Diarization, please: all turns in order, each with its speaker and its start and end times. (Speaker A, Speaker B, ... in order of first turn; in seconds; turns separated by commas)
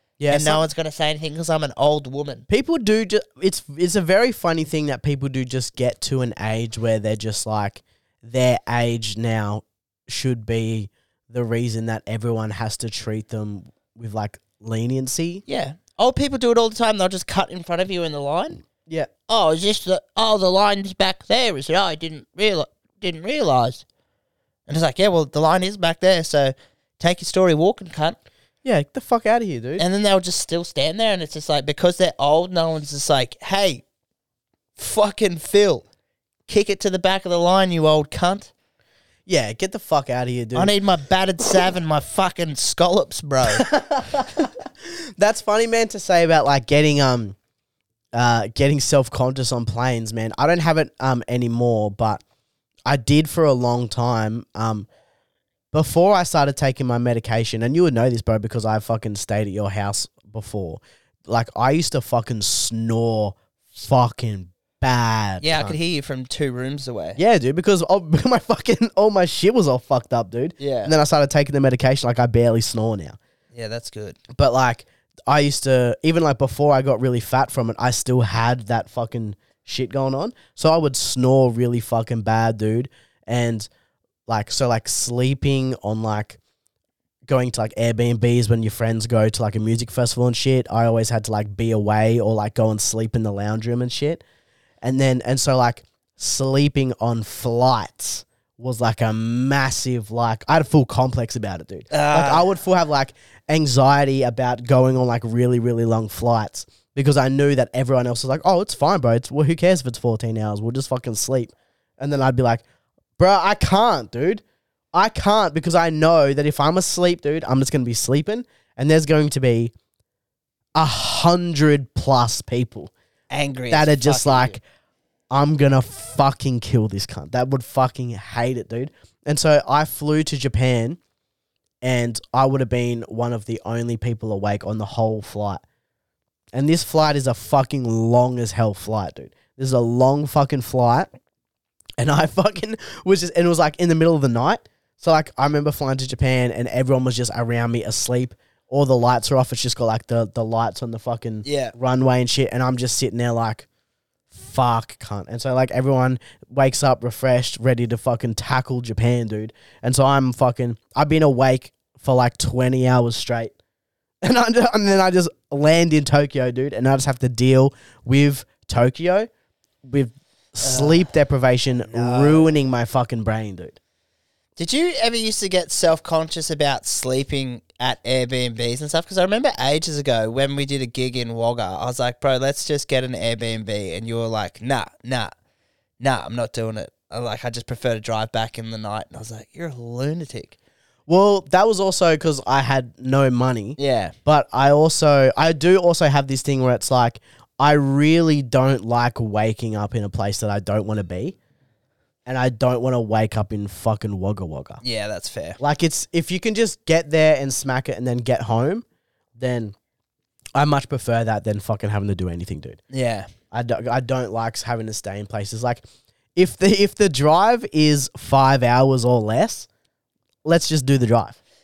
Speaker A: 0.2-0.6, Speaker B: 0.3-2.4, Speaker A: 2.5-15.4, Speaker B: 15.5-18.6, Speaker B: 19.3-23.8, Speaker B: 24.7-28.2, Speaker A: 28.6-29.8, Speaker B: 29.8-33.8, Speaker B: 34.8-35.8, Speaker B: 36.5-38.5, Speaker A: 39.2-40.7, Speaker B: 40.5-43.6, Speaker A: 43.5-47.4, Speaker A: 48.1-52.2, Speaker A: 52.9-54.9, Speaker A: 55.7-65.8, Speaker B: 65.4-67.2, Speaker A: 67.2-73.2, Speaker B: 70.6-70.9, Speaker B: 73.5-74.2, Speaker A: 74.3-83.7, Speaker A: 84.3-86.4, Speaker A: 87.2-94.2, Speaker A: 94.8-112.6, Speaker B: 101.9-102.5, Speaker A: 113.2-119.7, Speaker A: 120.8-122.9, Speaker B: 123.3-124.6, Speaker A: 123.7-124.6, Speaker A: 125.3-131.0, Speaker A: 131.8-135.6, Speaker A: 136.5-141.1, Speaker A: 142.0-153.7, Speaker B: 151.4-151.7, Speaker A: 154.3-163.5, Speaker A: 164.2-169.3, Speaker A: 169.8-173.8, Speaker B: 170.6-171.1, Speaker B: 171.9-172.5, Speaker B: 174.6-185.3, Speaker B: 186.0-190.5, Speaker A: 191.1-201.3, Speaker B: 193.8-194.1, Speaker A: 202.2-204.8, Speaker B: 204.8-205.6, Speaker A: 205.6-208.8, Speaker A: 209.4-209.7, Speaker A: 210.5-212.8, Speaker B: 212.9-213.3, Speaker A: 213.5-215.8, Speaker A: 216.3-219.7, Speaker A: 220.4-221.4